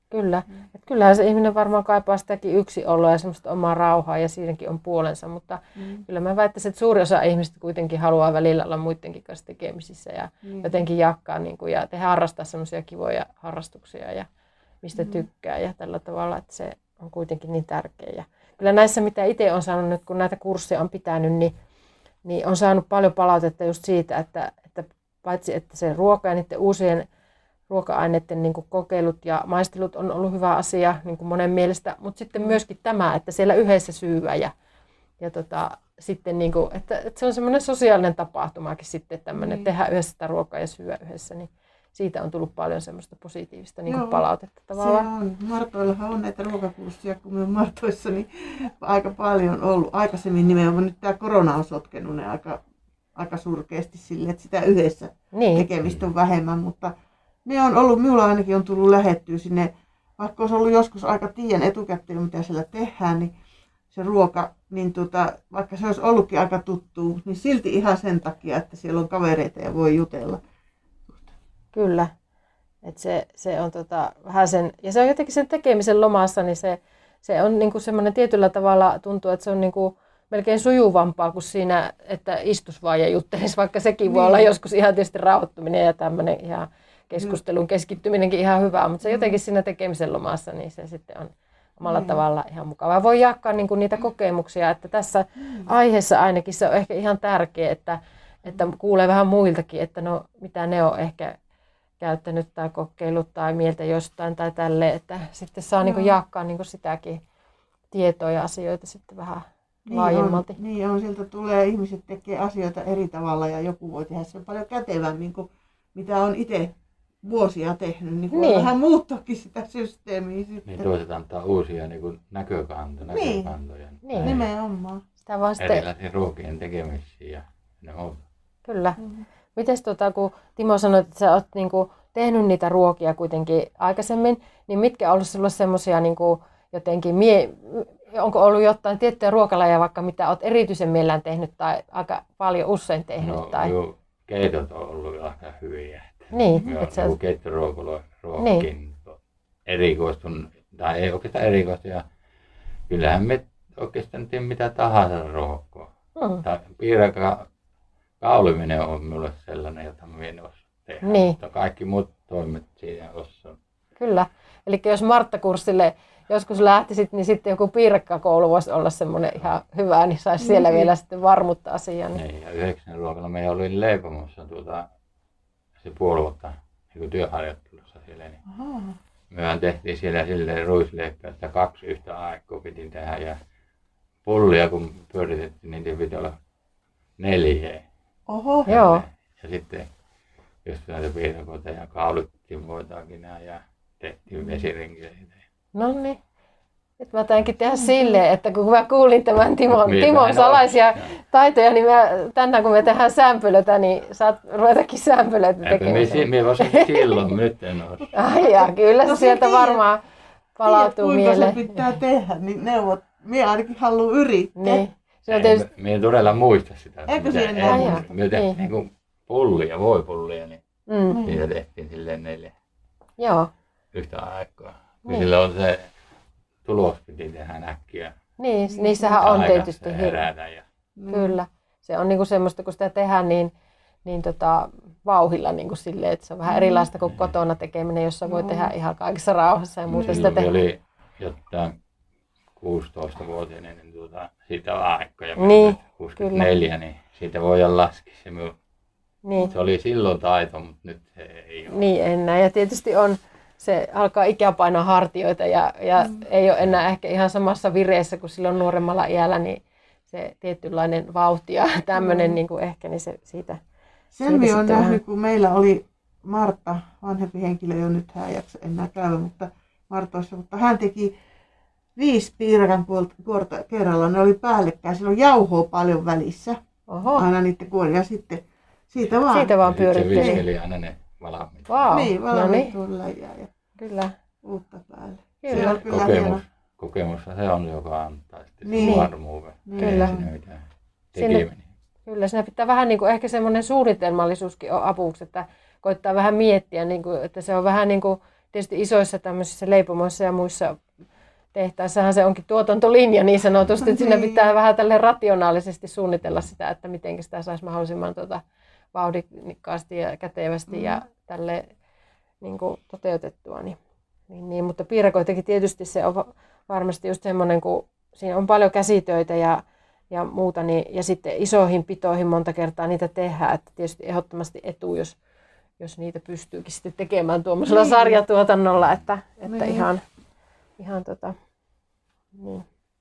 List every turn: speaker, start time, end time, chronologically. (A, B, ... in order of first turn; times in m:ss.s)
0:00.1-0:14.3 A
0:05.8-0:06.0 B
0:10.4-0:10.8 B
0:14.8-0:21.5 A
0:15.0-0:15.2 B
0:22.2-0:27.1 A
0:27.7-0:34.5 A
0:35.2-0:45.1 A
0:39.4-0:39.7 B
0:43.9-0:44.2 B
0:44.7-0:52.6 B
0:53.1-0:56.9 B
0:55.3-0:55.7 A
0:57.4-1:03.3 B
1:03.9-1:10.4 B
1:11.1-1:11.3 B
1:11.7-1:12.1 A
1:12.8-1:41.4 A
1:24.1-1:24.5 B
1:29.0-1:29.3 B
1:31.8-1:32.2 B
1:35.4-1:35.7 B
1:42.0-1:47.2 A
1:45.8-1:46.1 B
1:47.9-1:50.6 A
1:49.9-2:00.9 B
1:58.3-1:58.7 A
2:00.7-2:04.5 C
2:03.1-2:03.5 B
2:04.0-2:04.3 A
2:04.2-2:05.0 B
2:05.2-2:05.8 A
2:05.6-2:08.2 C
2:08.6-2:09.0 A
2:09.0-2:09.2 B
2:09.5-2:23.7 A
2:23.2-2:32.0 C
2:26.3-2:27.1 A
2:28.4-2:28.6 A
2:32.9-2:35.9 C
2:36.2-2:36.4 A
2:36.4-2:37.5 C
2:38.2-2:43.6 C
2:41.0-2:41.4 A
2:44.0-2:52.2 A
2:50.4-2:50.9 B
2:52.1-2:54.9 C
2:55.8-2:58.4 C
2:58.5-2:59.0 B
2:59.3-3:03.4 C
3:04.2-3:06.4 C
3:07.2-3:07.8 C
3:08.3-3:08.7 B
3:08.6-3:09.9 C
3:08.7-3:09.0 A
3:10.6-3:15.4 C
3:14.4-3:14.6 B
3:15.7-3:16.2 A
3:17.0-3:27.2 A
3:17.7-3:18.2 B
3:19.7-3:21.1 C
3:25.6-3:28.1 C
3:28.1-3:30.0 A
3:28.2-3:29.8 B
3:30.6-3:31.8 A
3:30.6-3:34.8 B
3:34.6-3:35.6 A
3:35.3-3:40.6 C
3:37.1-3:38.2 B
3:37.7-3:38.6 A
3:40.9-3:41.2 A
3:41.1-3:41.4 B
3:41.2-3:42.5 C
3:43.2-3:43.5 A
3:43.9-3:45.9 C
3:46.6-3:48.1 C
3:48.4-3:50.2 A
3:48.7-3:49.2 B
3:49.1-3:50.6 C
3:51.0-3:51.4 B
3:51.1-3:53.5 A
3:54.0-4:00.5 A
3:56.5-3:56.8 B
3:57.0-3:57.3 C
3:58.2-3:58.7 B
3:59.9-4:01.7 C
3:59.9-4:00.3 B
4:02.6-4:08.5 C
4:05.4-4:06.5 A
4:09.2-4:09.5 A
4:09.5-4:11.8 C
4:11.7-4:23.6 A
4:22.0-4:22.4 B
4:24.1-4:31.1 B
4:24.2-4:25.0 A
4:32.0-4:36.6 B
4:36.9-4:37.2 A
4:37.1-4:39.6 B
4:39.3-4:40.4 A
4:39.6-4:41.9 C
4:40.1-4:40.4 B
4:41.7-4:42.7 A
4:41.9-4:43.5 B
4:43.8-4:44.1 A
4:44.4-4:46.4 B
4:45.4-4:45.8 A
4:45.5-4:51.7 C
4:48.6-4:49.1 B
4:48.8-4:49.1 A
4:49.6-4:50.3 B
4:49.8-4:50.2 A
4:51.2-4:51.4 A
4:52.0-5:00.8 A
5:01.5-5:08.4 A
5:03.8-5:04.5 B
5:08.9-5:11.7 A
5:10.7-5:11.0 B
5:12.4-5:13.8 A
5:14.3-5:25.2 A
5:25.8-5:30.0 A
5:27.6-5:28.2 B
5:29.4-5:29.9 B
5:30.8-5:31.4 A
5:32.3-5:32.6 A